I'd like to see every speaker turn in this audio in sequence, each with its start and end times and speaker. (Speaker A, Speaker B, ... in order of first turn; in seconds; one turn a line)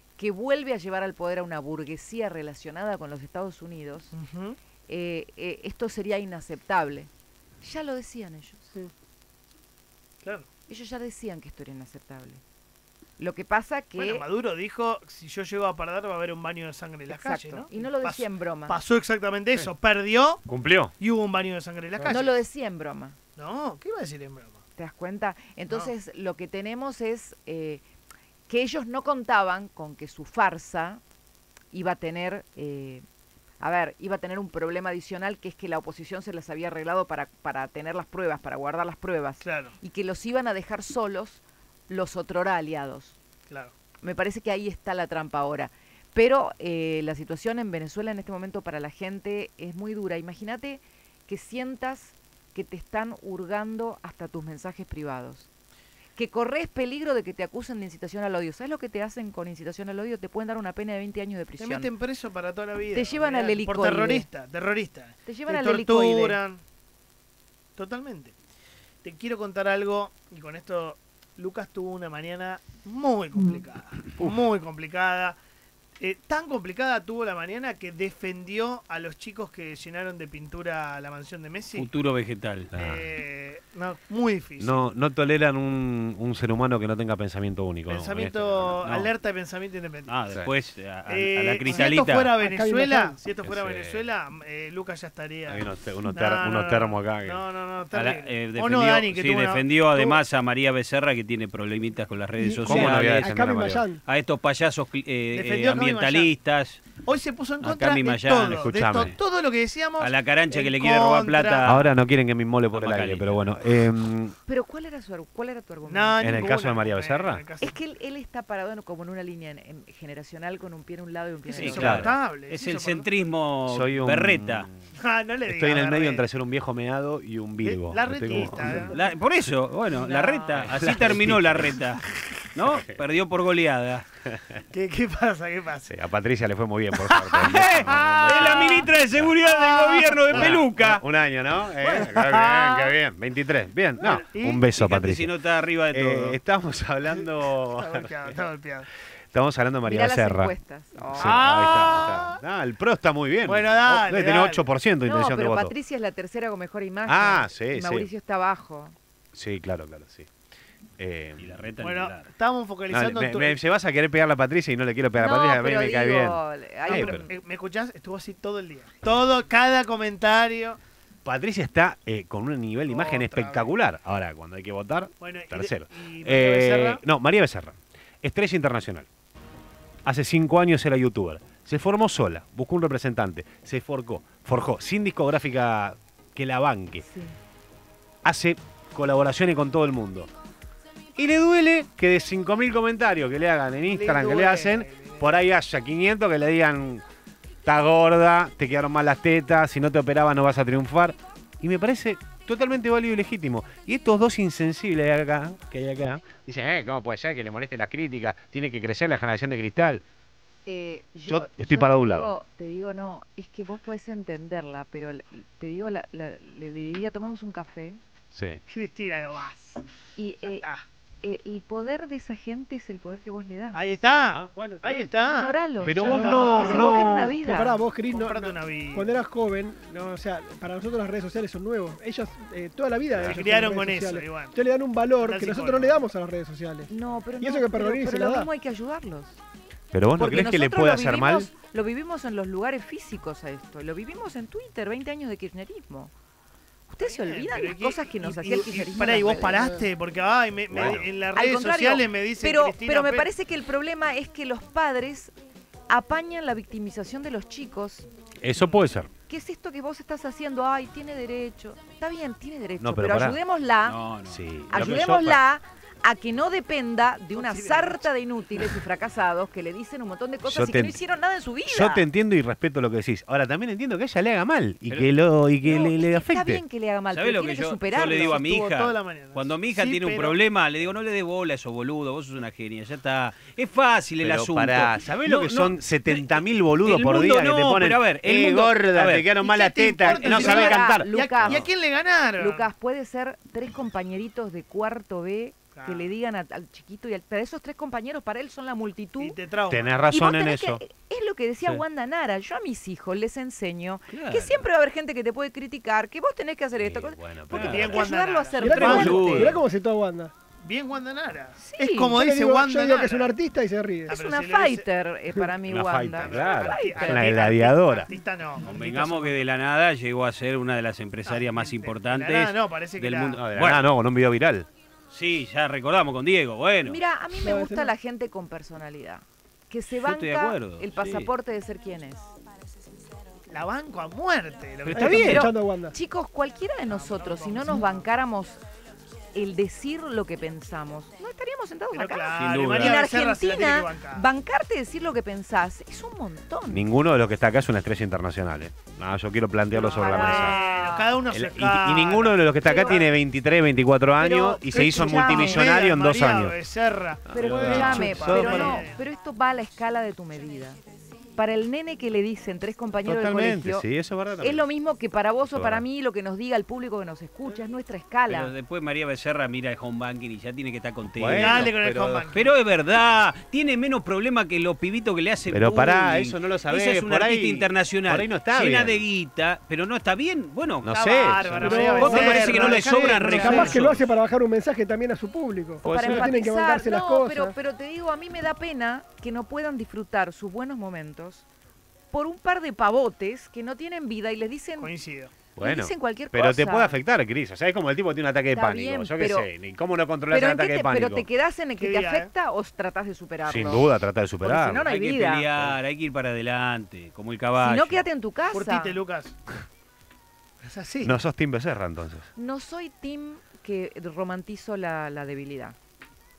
Speaker A: 0.2-4.1
Speaker B: 4.1-4.6
Speaker A: 4.9-7.1
Speaker A: 7.6-8.7
Speaker A: 10.7-12.4
Speaker A: 13.2-14.2
Speaker B: 14.0-20.4
Speaker A: 17.1-18.8
Speaker C: 20.5-20.9
Speaker B: 21.0-22.4
Speaker A: 22.1-23.2
Speaker B: 23.4-24.6
Speaker A: 24.8-27.8
Speaker A: 28.5-31.0
Speaker A: 31.7-33.0
Speaker A: 33.6-43.2
Speaker B: 39.4-39.8
Speaker A: 44.0-55.5
Speaker A: 56.2-61.9
Speaker B: 61.6-66.6
Speaker A: 62.9-64.3
Speaker A: 65.3-66.4
Speaker B: 67.8-68.3
Speaker B: 69.0-75.4
Speaker B: 76.0-81.9
Speaker D: 81.8-82.7
Speaker C: 82.7-83.1
Speaker B: 82.8-84.9
Speaker C: 84.6-89.1
Speaker B: 87.9-90.1
Speaker D: 90.1-92.3
Speaker B: 91.1-100.2
Speaker E: 92.4-93.2
Speaker C: 93.4-94.1
Speaker C: 95.5-97.4
Speaker D: 97.9-103.3
Speaker E: 102.4-104.0
Speaker C: 102.7-103.8
Speaker D: 104.1-106.8
Speaker B: 105.3-106.3
Speaker B: 107.0-111.7
Speaker D: 107.6-109.2
Speaker C: 108.5-109.1
Speaker D: 110.0-111.9
Speaker C: 111.6-114.4
Speaker D: 112.7-113.5
Speaker A: 114.5-116.5
Speaker B: 115.9-117.8
Speaker C: 116.2-117.4
Speaker A: 117.6-122.0
Speaker B: 121.5-123.1
Speaker D: 121.5-124.7
Speaker C: 121.7-122.1
Speaker C: 123.7-124.8
Speaker B: 125.0-126.3
Speaker C: 125.5-128.9
Speaker B: 127.6-129.1
Speaker D: 128.9-132.0
Speaker A: 129.9-130.7
Speaker C: 130.5-131.8
Speaker D: 132.5-134.1
Speaker C: 132.7-133.0
Speaker B: 134.7-136.0
Speaker C: 135.9-139.3
Speaker D: 137.2-141.0
Speaker B: 139.4-140.6
Speaker C: 140.3-145.3
Speaker B: 141.8-142.9
Speaker B: 144.0-144.7
Speaker D: 144.8-146.4
Speaker C: 145.9-148.4
Speaker B: 147.2-148.9
Speaker C: 149.3-150.5
Speaker A: 149.8-151.5
Speaker C: 151.1-155.7
Speaker B: 151.2-152.4
Speaker B: 153.4-154.7
Speaker A: 155.0-158.9
Speaker C: 157.1-158.1
Speaker C: 159.3-160.3
Speaker C: 161.0-161.5
Speaker D: 161.4-162.3
Speaker B: 161.8-163.6
Speaker C: 162.9-167.3
Speaker A: 165.2-167.3
Speaker B: 166.9-170.8
Speaker C: 171.2-179.1
Speaker B: 172.9-173.8
Speaker B: 175.2-177.0
Speaker C: 180.1-187.1
Speaker A: 187.0-187.4
Speaker C: 188.2-190.3
Speaker C: 191.2-197.0
Speaker B: 193.8-195.4
Speaker C: 197.7-210.0
Speaker A: 210.7-218.0
Speaker C: 211.3-212.3
Speaker C: 218.3-218.6
Speaker B: 218.7-219.8
Speaker A: 220.2-220.7
Speaker B: 220.4-220.8
Speaker A: 221.2-223.8
Speaker B: 223.7-225.5
Speaker C: 224.3-225.0
Speaker A: 225.3-227.8
Speaker C: 225.8-226.7
Speaker E: 226.0-238.5
Speaker B: 226.1-226.6
Speaker B: 228.1-229.2
Speaker C: 233.2-233.4
Speaker B: 233.2-234.6
Speaker B: 235.2-236.0
Speaker A: 236.9-239.4
Speaker C: 239.9-241.5
Speaker B: 240.2-240.5
Speaker A: 240.2-246.1
Speaker A: 246.9-249.8
Speaker B: 247.0-253.3
Speaker C: 250.7-251.1
Speaker A: 250.8-255.3
Speaker A: 255.9-258.1
Speaker C: 258.4-259.1
Speaker A: 259.3-264.0
Speaker C: 262.8-263.4
Speaker D: 263.8-264.6
Speaker C: 264.3-265.4
Speaker A: 264.7-272.1
Speaker B: 267.3-268.1
Speaker C: 270.4-271.0
Speaker C: 271.7-276.6
Speaker D: 274.9-275.1
Speaker A: 275.7-278.4
Speaker D: 277.1-289.3
Speaker B: 278.0-280.4
Speaker C: 284.2-291.7
Speaker B: 289.4-292.7
Speaker A: 290.0-291.7
Speaker A: 292.4-299.4
Speaker B: 295.7-296.1
Speaker B: 299.2-299.9
Speaker C: 299.7-300.8
Speaker A: 300.1-309.6
Speaker D: 304.1-304.6
Speaker C: 306.8-308.1
Speaker B: 307.5-309.3
Speaker D: 308.6-309.6
Speaker E: 308.6-310.3
Speaker B: 310.6-313.3
Speaker A: 311.6-312.2
Speaker E: 312.1-314.2
Speaker A: 314.1-317.4
Speaker B: 314.1-314.9
Speaker C: 315.7-318.1
Speaker B: 316.2-319.3
Speaker D: 318.6-323.9
Speaker B: 321.2-323.4
Speaker C: 323.4-324.7
Speaker D: 325.1-327.0
Speaker A: 326.8-332.3
Speaker E: 327.4-327.9
Speaker D: 329.9-331.3
Speaker B: 333.5-335.5
Speaker D: 334.9-335.5
Speaker E: 334.9-336.0
Speaker A: 335.2-338.6
Speaker B: 336.9-338.1
Speaker A: 339.3-346.9
Speaker B: 341.9-344.3
Speaker D: 342.3-343.0
Speaker C: 346.7-350.6
Speaker A: 349.7-351.1
Speaker B: 350.0-353.1
Speaker C: 351.3-356.6
Speaker A: 352.6-353.0
Speaker A: 354.2-355.7
Speaker B: 354.7-359.0
Speaker C: 357.3-358.8
Speaker A: 357.3-360.8
Speaker D: 357.3-358.5
Speaker A: 361.4-363.9
Speaker C: 363.1-364.7
Speaker A: 364.4-368.5
Speaker C: 365.4-365.9
Speaker D: 368.3-371.7
Speaker C: 371.1-372.3
Speaker B: 371.3-372.5
Speaker D: 372.3-380.9
Speaker C: 375.5-379.0
Speaker C: 380.8-383.4
Speaker B: 380.9-383.8
Speaker E: 381.6-387.6
Speaker D: 381.9-384.1
Speaker A: 383.4-383.8
Speaker C: 385.8-386.3
Speaker A: 385.8-391.5
Speaker A: 392.1-394.9
Speaker B: 394.8-395.3
Speaker C: 395.6-401.3
Speaker A: 395.6-397.0
Speaker A: 398.5-399.5
Speaker A: 400.3-403.9
Speaker B: 401.8-402.3
Speaker C: 403.5-404.9
Speaker A: 404.4-405.5
Speaker D: 404.7-408.1
Speaker A: 407.6-409.0
Speaker B: 408.5-409.4
Speaker B: 410.6-411.2
Speaker C: 411.0-412.3
Speaker A: 412.4-415.8